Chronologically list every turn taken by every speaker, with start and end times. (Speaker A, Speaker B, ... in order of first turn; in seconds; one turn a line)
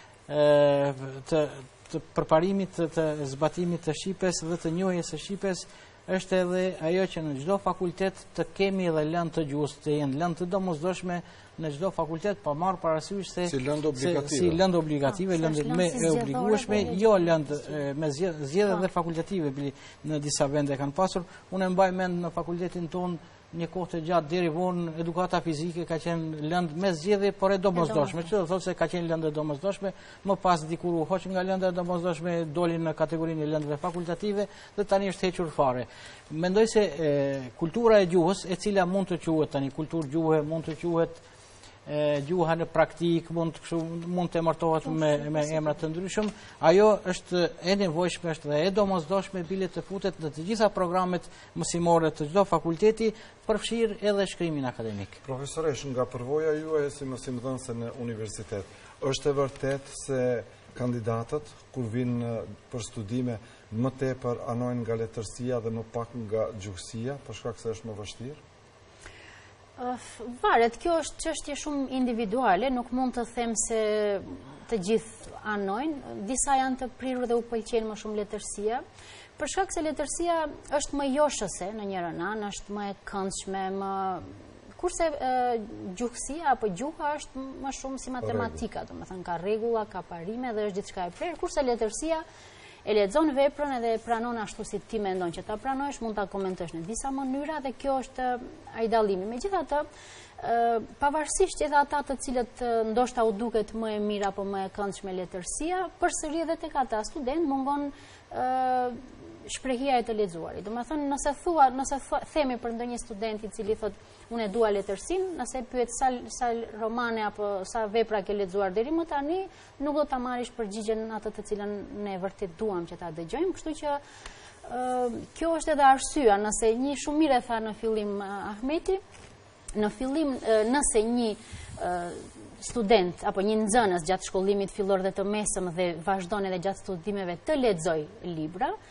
Speaker A: 0.3-41.2
Speaker B: 13.4-14.6
Speaker C: 15.1-17.8
Speaker C: 27.8-28.1
Speaker A: 41.9-55.2
Speaker C: 44.9-45.8
Speaker B: 55.2-68.4
Speaker C: 69.8-78.8
Speaker C: 79.4-92.2
Speaker B: 88.2-88.6
Speaker C: 92.8-99.9
Speaker C: 100.4-124.0
Speaker C: 124.7-129.0
Speaker C: 129.7-138.8